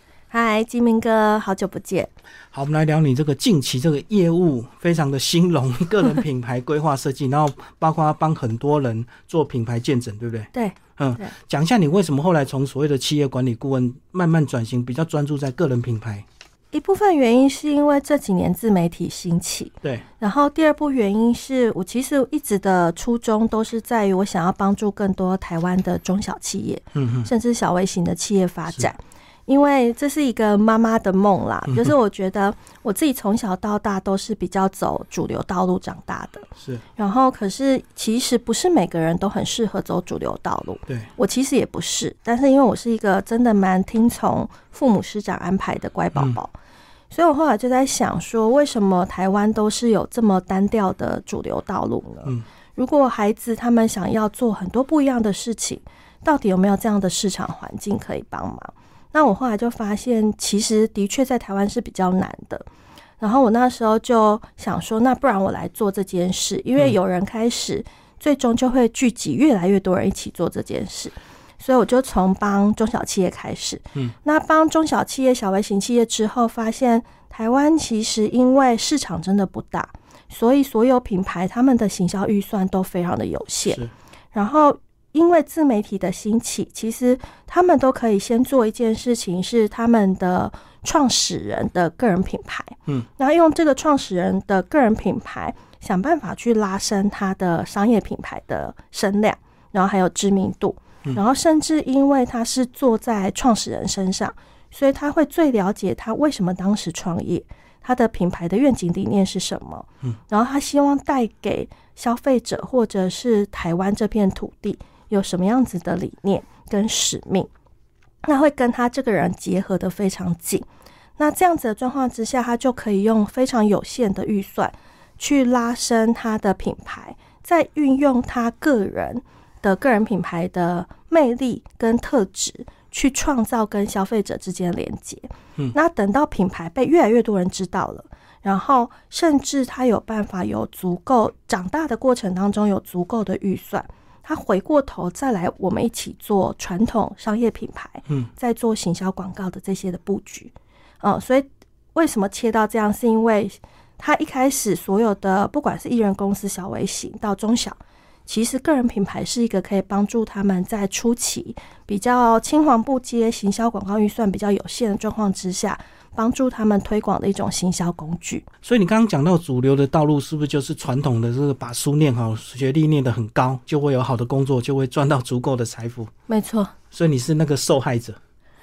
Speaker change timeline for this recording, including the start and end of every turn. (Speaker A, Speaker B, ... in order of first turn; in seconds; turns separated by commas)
Speaker A: 0.3-2.1, Speaker B: 2.5-16.2, Speaker A: 10.5-11.3, Speaker A: 16.7-46.5, Speaker B: 26.9-27.3, Speaker B: 31.7-31.9, Speaker B: 36.6-36.8, Speaker A: 47.1-62.6, Speaker A: 63.2-83.8, Speaker B: 83.7-83.9, Speaker A: 84.3-117.5, Speaker A: 118.2-120.7, Speaker A: 121.2-168.4, Speaker B: 168.6-176.1, Speaker A: 176.3-176.7, Speaker B: 176.9-178.2